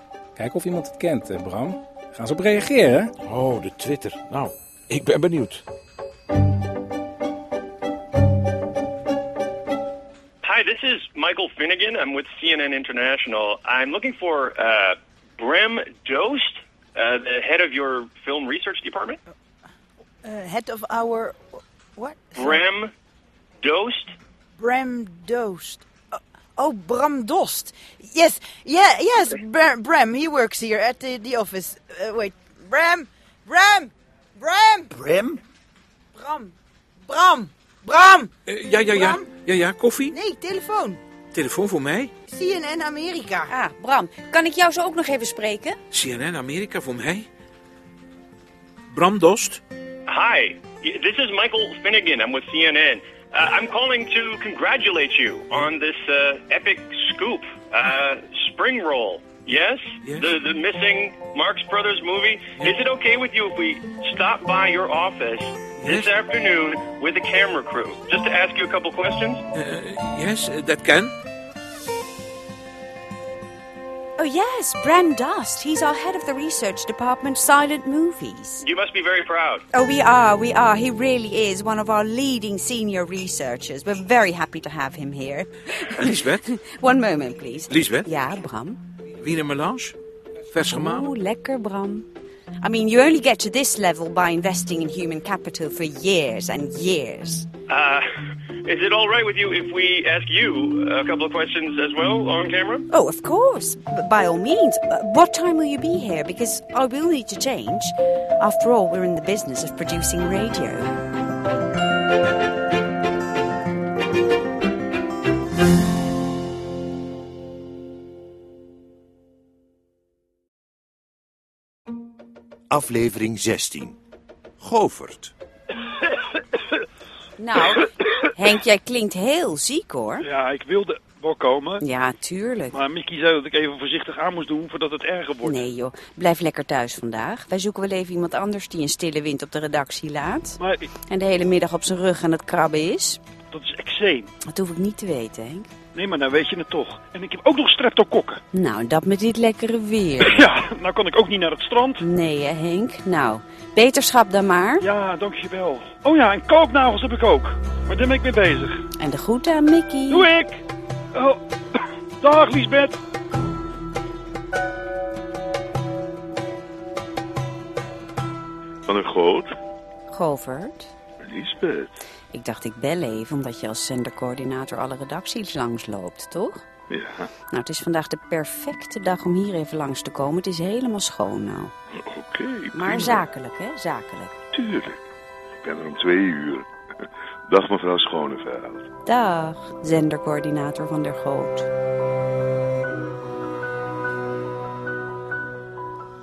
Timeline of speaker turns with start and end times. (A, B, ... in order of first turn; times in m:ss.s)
0:00.4-0:03.1 A
0:03.2-0:05.6 B
0:10.4-0:19.2 C
0:20.2-0:22.6 D
0:22.4-0:22.9 C
0:23.6-0:24.2 C
0:24.6-0:34.9 D
0:34.9-0:35.4 E
0:36.1-0:36.5 D
0:37.0-0:39.3 D
0:38.5-0:40.2 B
0:40.1-0:41.0 D
0:41.3-0:42.1 B
0:42.3-0:43.5 D
0:43.5-0:45.8 F
0:45.9-0:47.3 B
0:48.9-0:49.6 B
0:50.1-1:09.4 C
1:00.0-1:00.3 B
1:05.8-1:06.1 B
1:09.5-1:11.1 B
1:14.2-1:18.6 F
1:18.6-1:19.6 C
1:19.7-1:28.8 F
1:26.0-1:26.5 B
1:27.7-1:28.1 B
1:29.2-1:30.0 B
1:30.5-1:31.1 B
1:30.7-1:32.1 F
1:32.6-1:37.5 F
1:37.7-1:38.1 C
1:38.6-1:42.8 C
1:42.9-1:50.9 F
2:02.7-2:04.0 G
2:04.6-2:05.3 G
2:07.4-2:10.3 F
2:10.2-2:11.8 E
2:11.8-2:12.8 F
2:12.7-2:15.6 E
2:15.4-2:20.6 F
2:20.6-2:20.9 E
2:21.1-2:23.2 F
2:23.5-2:24.3 E
2:24.5-2:25.7 F
2:26.0-2:28.4 E
2:28.5-2:30.4 F
2:30.2-2:32.0 E
2:32.0-2:34.9 F
2:34.8-2:38.8 E
2:39.0-2:40.3 F
2:40.1-2:40.6 E
2:41.1-2:41.4 E
2:42.2-2:43.0 E
2:48.9-2:49.5 H
2:50.1-2:50.9 F
2:51.2-2:52.0 H
2:52.3-2:56.6 F
2:56.9-2:57.3 H
2:57.5-3:01.7 F
3:02.0-3:03.3 H
3:02.7-3:04.4 F
3:04.5-3:05.1 H
3:05.6-3:06.7 H
3:07.5-3:08.8 H
3:09.1-3:11.7 F